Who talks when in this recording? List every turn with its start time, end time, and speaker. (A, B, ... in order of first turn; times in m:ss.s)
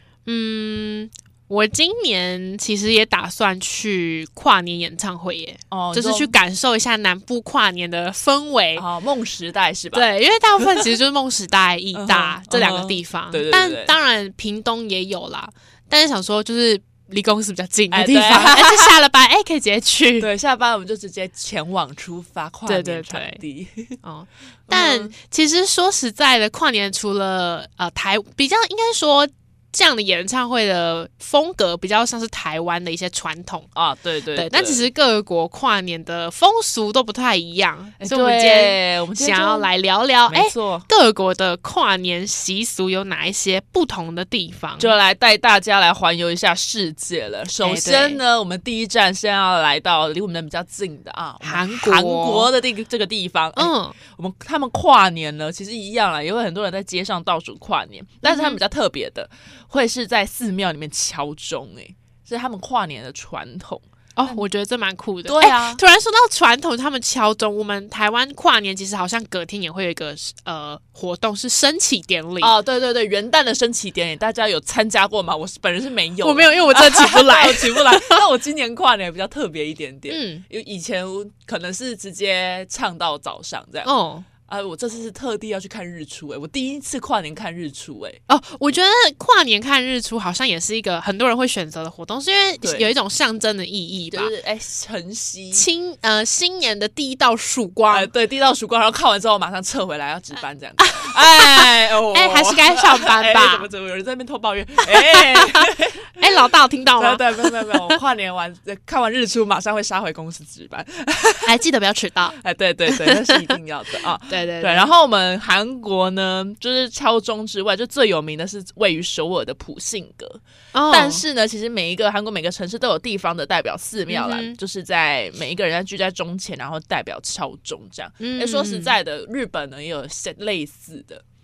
0:00.2-0:08.8 A
0:05.7-0:06.4 B
0:08.7-0:10.8 B
0:09.9-0:20.3 A
0:11.9-0:14.0 B
0:17.9-0:19.0 B
0:20.2-0:24.0 B
0:22.6-0:23.4 A
0:24.0-0:33.7 A
0:24.7-0:25.1 B
0:33.7-0:34.9 B
0:34.3-0:44.9 A
0:38.0-0:39.7 B
0:40.3-0:40.9 B
0:44.8-1:04.4 B
0:47.6-0:48.2 A
0:51.4-0:52.5 A
0:53.6-0:54.0 A
0:58.2-0:58.6 A
1:04.2-1:12.5 A
1:05.2-1:05.8 B
1:12.4-1:23.9 B
1:16.2-1:18.2 A
1:20.1-1:20.4 A
1:23.8-1:24.3 A
1:24.5-1:28.2 B
1:28.3-1:34.3 A
1:32.6-1:32.9 B
1:34.1-1:35.6 B
1:35.5-1:38.1 A
1:37.9-1:46.3 B
1:40.8-1:43.7 A
1:44.9-1:48.0 A
1:47.0-1:51.6 B
1:51.4-1:52.4 A
1:52.3-2:11.2 B
1:52.9-1:53.5 A
1:54.3-1:54.9 A
2:00.7-2:01.2 A
2:04.1-2:04.6 A
2:08.2-2:09.0 A